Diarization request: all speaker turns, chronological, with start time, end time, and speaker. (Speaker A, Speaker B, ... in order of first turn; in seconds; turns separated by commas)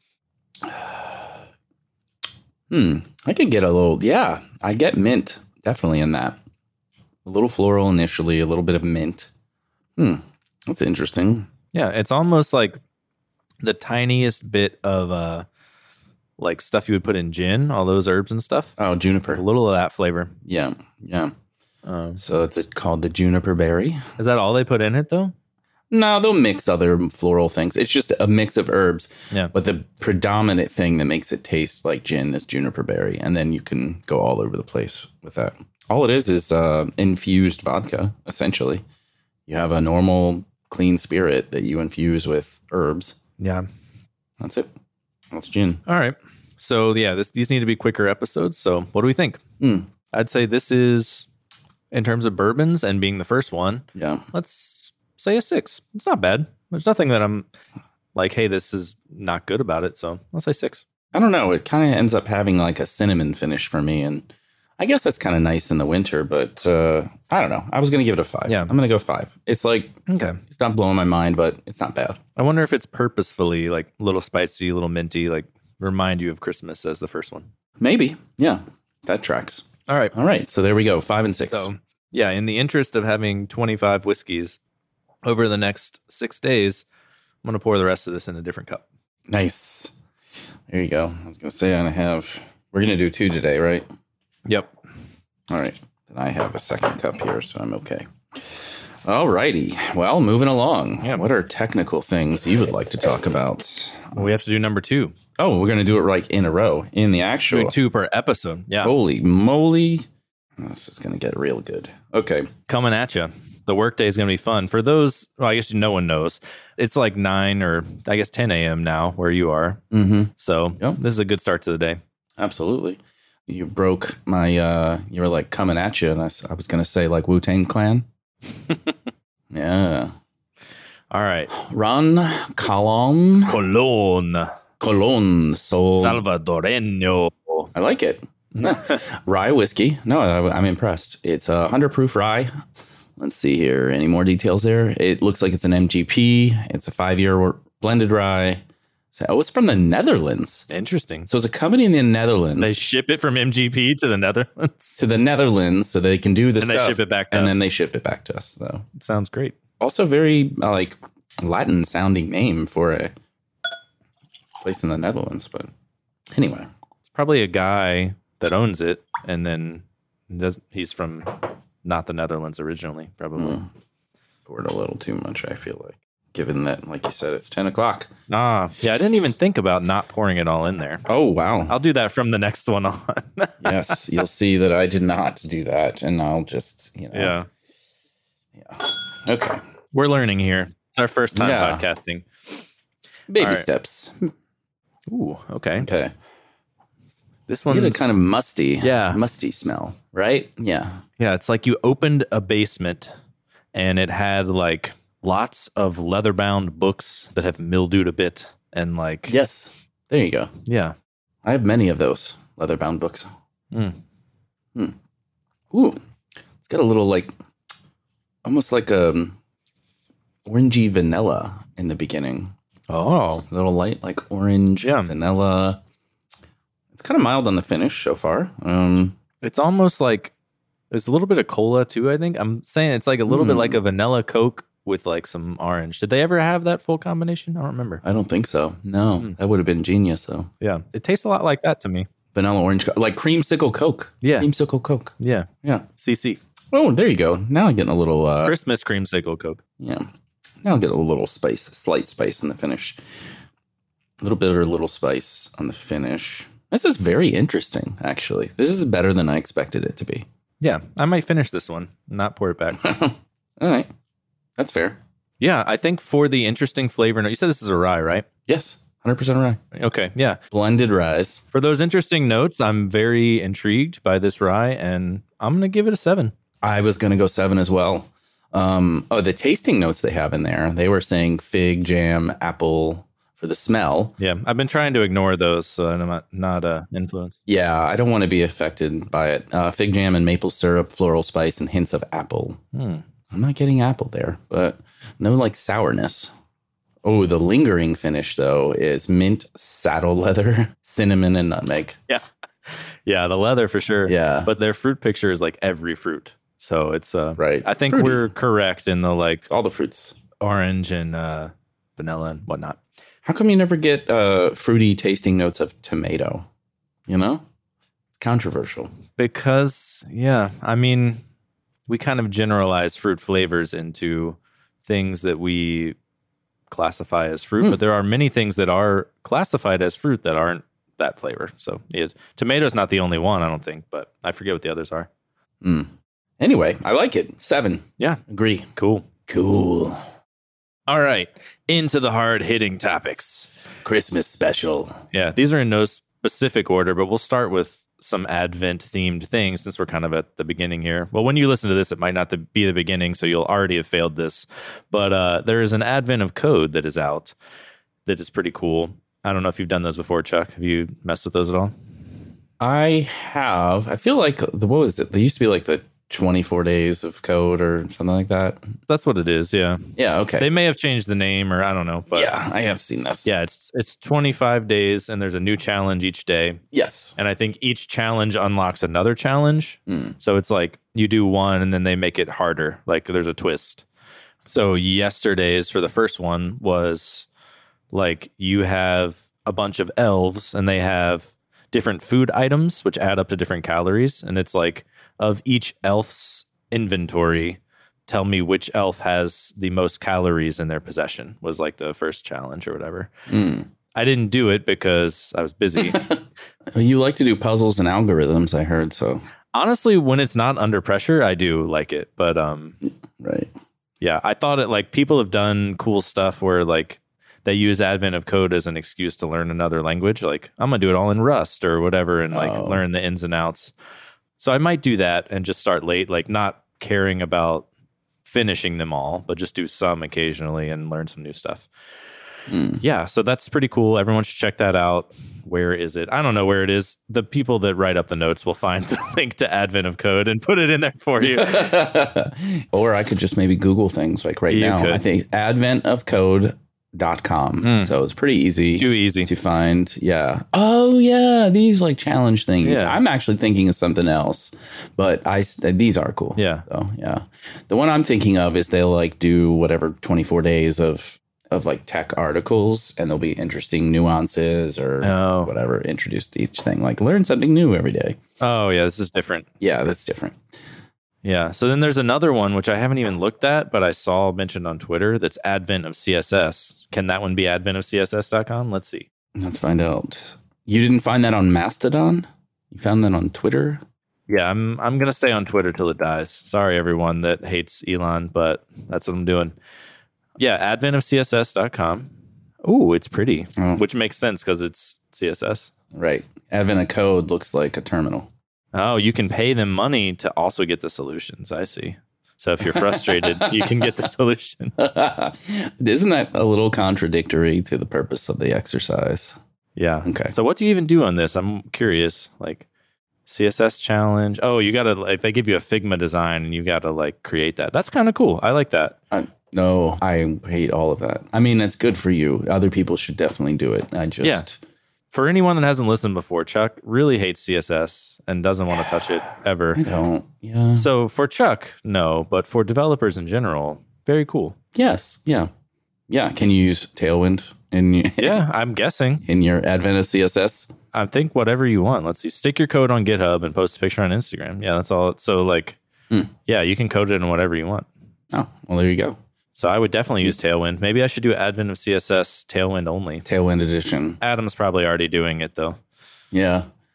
Speaker A: 0.6-1.4, Speaker A: 2.7-6.4, Speaker A: 7.2-9.3, Speaker A: 10.0-11.5, Speaker B: 11.7-12.8, Speaker B: 13.6-15.4, Speaker B: 16.4-18.7, Speaker A: 18.8-19.4, Speaker B: 19.3-20.3, Speaker A: 20.4-21.3, Speaker B: 21.9-22.2, Speaker A: 22.2-24.0, Speaker B: 24.2-25.3, Speaker A: 25.9-38.8, Speaker A: 39.5-43.2, Speaker B: 43.4-43.6, Speaker A: 44.4-44.7, Speaker A: 45.3-45.8, Speaker B: 45.9-49.4, Speaker A: 49.6-49.9, Speaker B: 50.1-51.3, Speaker B: 51.9-57.5, Speaker A: 54.0-54.2, Speaker B: 58.1-60.8, Speaker A: 61.1-70.0, Speaker B: 68.5-68.7, Speaker B: 70.1-70.4, Speaker A: 70.5-72.2, Speaker B: 72.3-77.5, Speaker A: 77.8-81.7, Speaker B: 79.9-80.1, Speaker B: 81.5-84.6, Speaker B: 85.2-86.8, Speaker B: 87.4-88.8, Speaker A: 89.3-90.0, Speaker A: 90.7-93.8, Speaker B: 94.5-94.7, Speaker A: 95.5-104.3, Speaker B: 104.1-105.2, Speaker A: 105.4-107.7, Speaker B: 107.5-108.9, Speaker A: 108.8-110.0, Speaker A: 110.6-112.5, Speaker B: 112.7-119.8, Speaker A: 119.9-121.0, Speaker B: 120.4-122.0, Speaker A: 122.4-128.1, Speaker A: 129.5-130.1, Speaker B: 131.1-131.5, Speaker A: 131.5-133.6, Speaker B: 133.5-134.5, Speaker A: 134.8-136.2, Speaker B: 136.0-137.7, Speaker A: 137.7-142.6, Speaker B: 138.6-139.0, Speaker A: 143.2-148.6, Speaker A: 149.1-150.7, Speaker B: 150.7-151.3, Speaker A: 151.3-152.7, Speaker B: 152.6-155.0, Speaker A: 155.0-158.8, Speaker B: 156.6-157.6, Speaker B: 158.9-159.6, Speaker A: 159.8-163.1, Speaker A: 164.6-165.7, Speaker A: 166.3-166.7, Speaker B: 167.1-173.6, Speaker A: 173.3-173.6, Speaker A: 174.4-178.1, Speaker B: 178.3-181.1, Speaker A: 181.1-181.7, Speaker B: 181.7-184.0, Speaker A: 183.6-187.3, Speaker B: 187.1-187.5, Speaker A: 188.5-189.6, Speaker B: 189.9-192.6, Speaker A: 191.3-191.8, Speaker A: 193.3-194.3, Speaker B: 193.4-193.7, Speaker B: 195.1-195.9, Speaker A: 195.8-196.1, Speaker B: 197.5-198.1, Speaker A: 197.7-201.0, Speaker B: 198.8-199.2, Speaker B: 201.2-203.1, Speaker B: 203.7-209.3, Speaker A: 209.3-210.5, Speaker B: 210.7-210.9, Speaker A: 211.4-213.3, Speaker B: 213.7-214.0, Speaker A: 215.7-216.0, Speaker A: 216.6-217.3, Speaker A: 218.4-219.3, Speaker A: 220.4-222.5, Speaker B: 222.9-223.4, Speaker A: 223.4-225.8, Speaker B: 224.8-225.1, Speaker A: 226.9-229.2, Speaker B: 229.4-230.3, Speaker B: 230.9-238.0, Speaker A: 233.3-233.8, Speaker A: 238.0-240.5, Speaker B: 240.6-242.1, Speaker A: 242.3-245.9, Speaker B: 244.2-244.5, Speaker B: 245.2-246.4, Speaker A: 246.7-248.6, Speaker B: 248.4-249.6, Speaker A: 249.8-250.1, Speaker A: 250.6-253.0, Speaker A: 254.2-260.2, Speaker B: 260.6-263.0, Speaker A: 262.8-263.9, Speaker A: 264.6-265.0, Speaker B: 265.4-268.3, Speaker A: 268.5-269.6, Speaker B: 269.7-270.4, Speaker A: 270.5-271.4, Speaker B: 271.5-276.3, Speaker A: 276.6-284.1, Speaker B: 284.2-287.4, Speaker A: 287.5-292.6, Speaker B: 292.7-293.0, Speaker A: 293.3-296.3, Speaker A: 297.0-302.0, Speaker B: 302.1-309.5, Speaker A: 304.1-304.5, Speaker A: 307.4-308.2, Speaker A: 309.5-310.2, Speaker B: 310.4-312.8, Speaker A: 313.2-316.5, Speaker A: 317.1-317.4, Speaker A: 318.1-318.9, Speaker B: 319.1-321.2, Speaker B: 321.9-325.9, Speaker B: 326.7-335.1, Speaker A: 335.6-338.7, Speaker B: 338.7-339.1, Speaker A: 339.3-340.0, Speaker B: 340.9-343.5, Speaker A: 343.8-345.0, Speaker B: 345.1-357.3, Speaker B: 358.1-361.7, Speaker A: 362.6-368.7, Speaker B: 368.9-372.3, Speaker A: 369.9-370.5, Speaker A: 372.1-373.3, Speaker B: 373.2-376.6, Speaker A: 376.7-377.1, Speaker B: 377.2-383.8, Speaker A: 379.9-380.1, Speaker B: 384.4-387.3, Speaker B: 387.9-403.1, Speaker A: 403.3-403.7, Speaker B: 403.9-406.1, Speaker A: 405.8-406.2, Speaker A: 406.7-409.2, Speaker B: 409.5-412.8, Speaker A: 413.1-413.5, Speaker B: 414.0-423.7, Speaker A: 422.3-422.8, Speaker B: 424.4-427.7, Speaker B: 428.2-431.7, Speaker A: 432.5-432.8, Speaker B: 432.8-441.8, Speaker A: 441.2-468.2, Speaker B: 444.5-445.0, Speaker B: 447.6-447.9, Speaker B: 448.8-449.3, Speaker B: 452.6-453.0, Speaker B: 456.4-456.6, Speaker B: 465.0-465.5, Speaker B: 468.4-469.5, Speaker A: 469.6-470.4, Speaker B: 471.2-479.1, Speaker A: 479.4-483.8, Speaker B: 484.3-489.6, Speaker B: 490.4-492.1, Speaker B: 492.6-495.7, Speaker A: 493.6-493.8, Speaker A: 495.9-498.3, Speaker B: 498.7-504.9, Speaker A: 502.6-503.9, Speaker A: 504.8-509.4, Speaker B: 509.8-512.6, Speaker A: 510.0-510.3, Speaker B: 513.2-519.0, Speaker A: 519.1-524.6, Speaker B: 525.1-529.9, Speaker A: 529.7-530.9, Speaker B: 530.7-534.5, Speaker A: 534.7-535.5, Speaker A: 536.1-538.4, Speaker B: 538.2-539.2, Speaker A: 539.2-540.7, Speaker B: 540.9-545.8, Speaker B: 546.5-547.9, Speaker A: 548.3-549.2, Speaker B: 549.5-553.2, Speaker A: 553.2-554.2, Speaker B: 554.2-555.8, Speaker A: 556.3-556.6